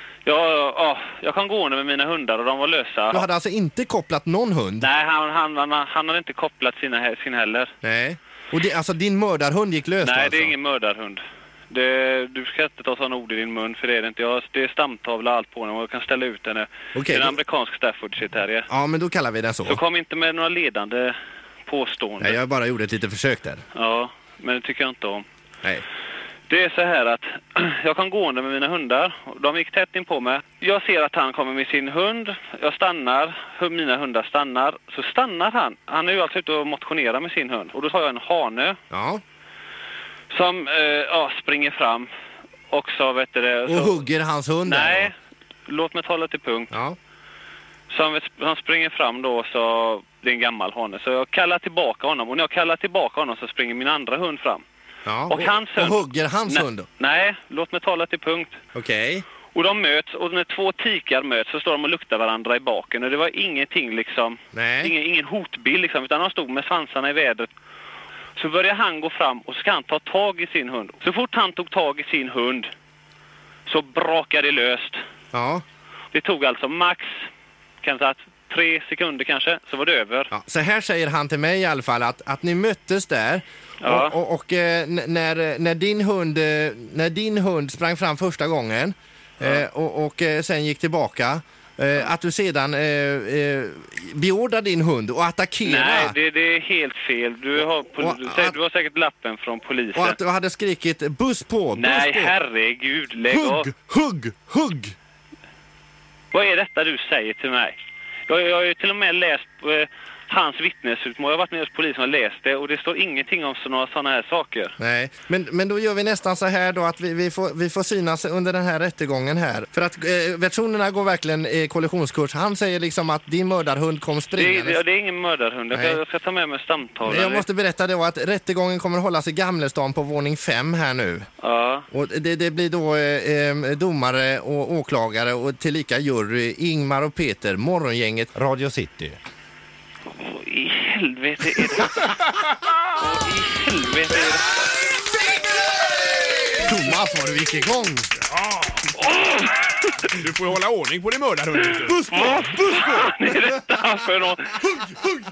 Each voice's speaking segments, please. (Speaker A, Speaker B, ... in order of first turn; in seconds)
Speaker A: 0.2-3.2, 4.8-7.7, 10.0-18.7, 19.6-22.4, 23.7-25.2, 26.5-38.8, 40.3-42.1, 42.7-44.0, 44.6-45.1, 45.7-46.7, 47.9-54.6, 55.3-58.6, 59.5-67.5, 68.3-72.7, 73.7-75.0, 76.1-77.3, 77.8-80.3, 83.8-84.2, 95.6-100.2, 101.7-103.7, 106.3-107.8, 108.3-114.8, 124.3-127.5, 131.4-131.8, 140.2-142.0, 143.0-144.4, 149.0-149.6, 152.1-154.6
Speaker B: 3.1-4.9, 7.8-10.5, 16.9-17.4, 18.7-19.8, 22.2-23.6, 38.9-39.2, 43.6-45.1, 55.0-56.9, 58.7-59.2, 64.5-64.9, 75.3-75.6, 80.3-96.1, 98.0-98.5, 99.9-102.3, 103.3-104.9, 114.8-124.8, 125.7-126.0, 127.0-131.2, 131.9-139.1, 146.6-148.1, 151.9-153.6
Speaker C: 146.1-146.6, 148.4-148.8, 150.2-151.9